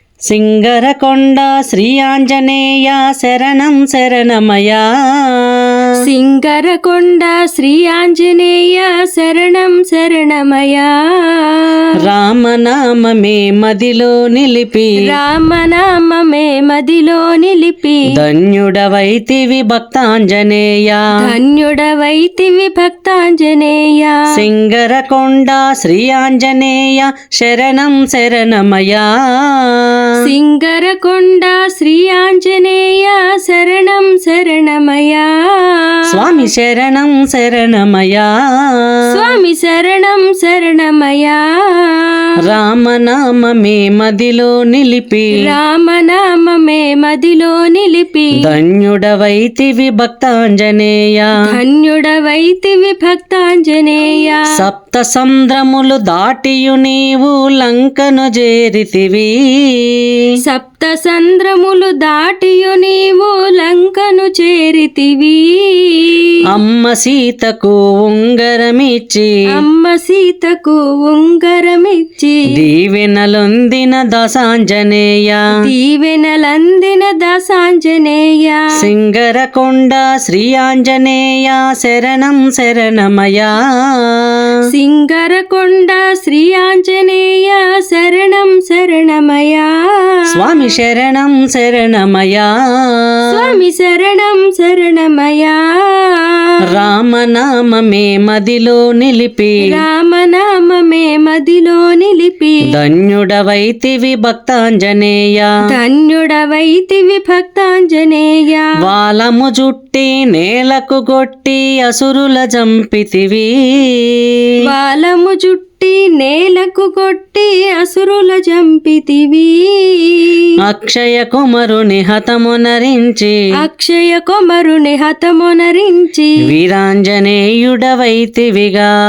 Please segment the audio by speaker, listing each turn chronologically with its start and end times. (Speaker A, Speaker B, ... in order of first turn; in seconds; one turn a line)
Speaker A: 0.3-5.9
Speaker B: 6.0-11.9
Speaker A: 12.0-15.2
Speaker B: 15.0-18.1
Speaker A: 18.1-21.1
Speaker B: 21.2-24.3
Speaker A: 24.3-30.1
Speaker B: 30.2-36.5
Speaker A: 36.1-39.0
Speaker B: 39.1-42.4
Speaker A: 42.4-45.5
Speaker B: 45.4-48.5
Speaker A: 48.4-51.4
Speaker B: 51.4-54.5
Speaker A: 54.5-60.2
Speaker B: 60.4-66.4
Speaker A: 66.5-69.6
Speaker B: 69.5-72.7
Speaker A: 72.5-75.5
Speaker B: 75.6-78.7
Speaker A: 78.8-84.5
Speaker B: 84.7-90.7
Speaker A: 90.3-93.5
Speaker B: 93.3-96.6
Speaker A: 96.7-99.8
Speaker B: 99.6-102.7
Speaker A: 102.7-105.5
Speaker B: 105.7-108.7
Speaker A: 108.8-114.5
Speaker B: 114.6-120.5
Speaker A: 120.6-123.4
Speaker B: 123.6-126.4
Speaker A: 126.4-128.9